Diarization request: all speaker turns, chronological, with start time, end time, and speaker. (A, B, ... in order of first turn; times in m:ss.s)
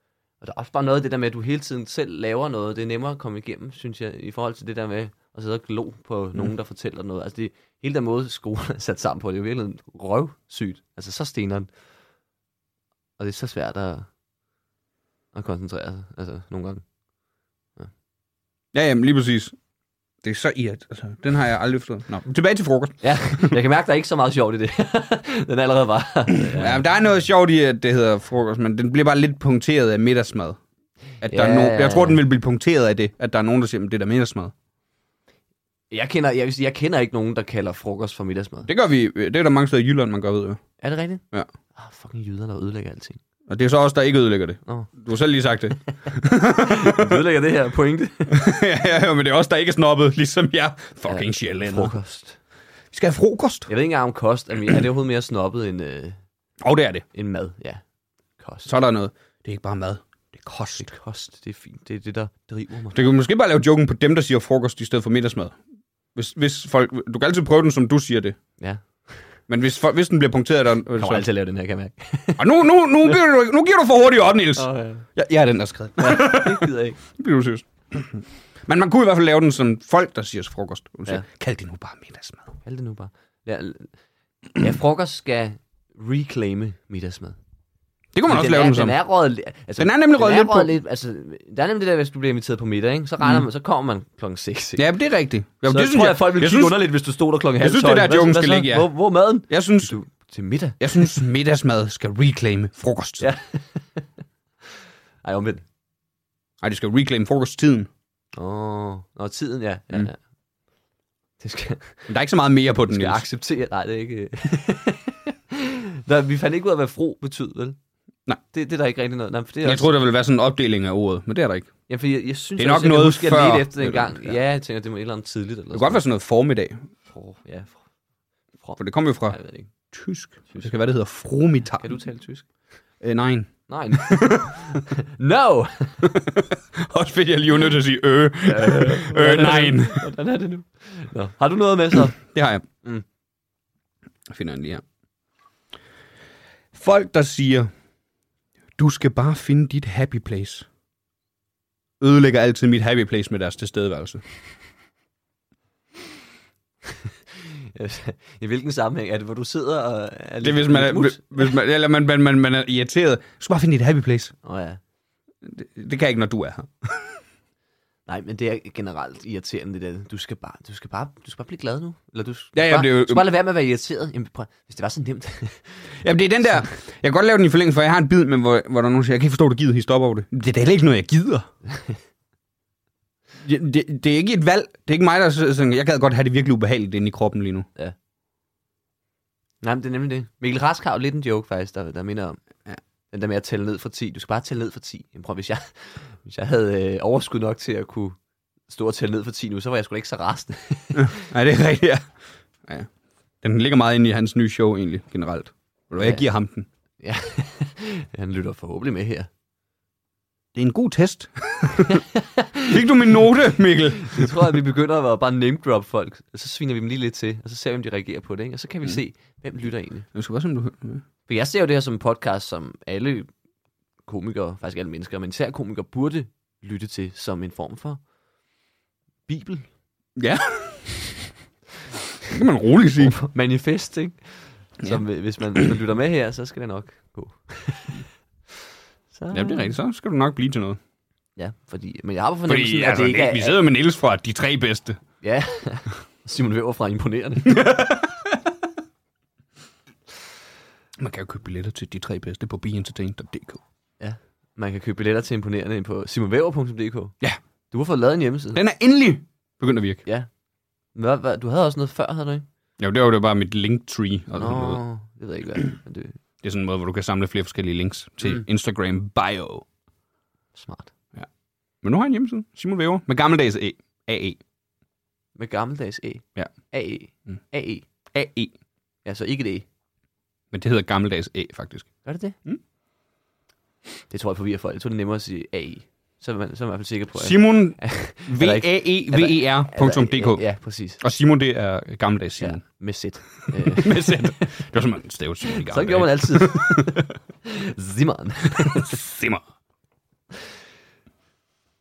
0:00.4-0:11.7 A
0:13.2-0:14.1 A
0:15.3-0:16.8 A
0:18.7-0:19.6 B
0:20.2-0:23.6 B
0:23.0-0:26.8 A
0:26.4-0:30.6 B
0:31.2-0:34.5 B
0:31.3-0:32.2 A
0:35.9-0:38.7 A
0:38.7-0:40.6 B
0:40.8-0:41.2 A
0:41.7-0:43.2 A
0:43.5-0:47.2 B
0:44.7-0:44.9 A
0:46.5-0:48.4 A
0:48.3-0:51.9 B
0:51.1-0:52.4 A
0:52.9-0:53.7 B
0:53.7-0:56.2 A
0:56.6-0:57.0 B
0:57.1-0:57.8 A
0:58.4-0:58.7 A
0:58.7-1:00.9 B
1:00.8-1:03.0 A
1:02.9-1:05.6 B
1:06.2-1:08.4 B
1:08.6-1:09.2 A
1:09.5-1:11.2 B
1:11.0-1:12.6 A
1:12.4-1:22.6 B
1:14.6-1:15.1 A
1:16.0-1:17.0 A
1:22.6-1:23.9 A
1:24.6-1:27.4 A
1:28.2-1:29.0 B
1:28.3-1:34.8 A
1:29.8-1:30.7 B
1:34.8-1:36.8 B
1:35.7-1:41.2 A
1:37.6-1:39.9 B
1:40.8-1:43.3 B
1:43.2-1:44.1 A
1:45.2-1:45.6 A
1:46.6-1:47.9 B
1:48.4-1:50.2 A
1:51.4-1:52.1 A
1:52.1-1:53.2 B
1:52.9-1:57.8 A
1:58.5-1:59.9 A
1:59.6-2:01.7 B
2:01.9-2:06.0 A
2:02.6-2:04.4 B
2:05.7-2:06.8 B
2:07.1-2:07.8 A
2:08.6-2:09.7 A
2:08.8-2:09.4 B
2:09.9-2:11.9 B
2:11.8-2:12.5 A
2:13.0-2:14.8 B
2:13.7-2:16.1 A
2:16.0-2:20.1 B
2:18.4-2:22.2 A
2:22.2-2:22.6 B
2:24.3-2:24.8 B
2:26.7-2:27.7 B
2:28.8-2:30.7 B
2:32.0-2:34.2 B
2:37.4-2:41.5 A
2:40.4-2:44.4 B
2:44.4-2:44.8 A
2:45.4-2:47.2 B
2:48.1-2:55.9 A
2:52.6-2:53.2 B
2:56.0-3:01.5 B
3:03.4-3:07.7 B
3:09.6-3:12.4 A
3:13.1-3:18.2 A
3:18.7-3:21.2 A
3:20.9-3:22.1 B
3:22.6-3:22.9 B
3:23.4-3:26.7 B
3:26.0-3:26.3 A
3:27.0-3:29.3 A
3:30.5-3:32.0 B
3:31.9-3:32.8 A
3:32.7-3:34.6 B
3:34.0-3:40.1 A
3:40.1-3:41.0 B
3:41.3-3:43.3 A
3:44.0-3:48.0 A
3:49.3-3:49.7 A
3:50.2-3:51.0 B
3:52.3-3:53.2 B
3:53.0-3:58.0 A
3:59.1-3:59.7 A
3:59.3-4:00.8 B
4:01.4-4:03.6 A
4:02.5-4:05.0 B
4:05.2-4:07.8 A
4:07.5-4:08.4 B
4:11.0-4:13.6 B
4:14.0-4:17.2 A
4:17.7-4:18.6 A
4:18.6-4:20.0 B
4:21.0-4:22.5 A
4:22.8-4:24.8 B
4:24.4-4:26.2 A
4:26.4-4:29.6 B
4:30.6-4:30.9 A
4:31.8-4:34.4 B
4:35.4-4:37.9 A
4:38.1-4:38.5 B
4:39.0-4:39.7 A
4:40.5-4:42.6 B
4:42.0-4:42.4 A
4:44.1-4:51.0 A
4:47.2-4:50.5 B
4:51.0-4:52.8 B
4:52.4-4:54.6 A
4:53.6-4:57.0 B
4:55.5-4:59.0 A
4:58.6-4:59.4 B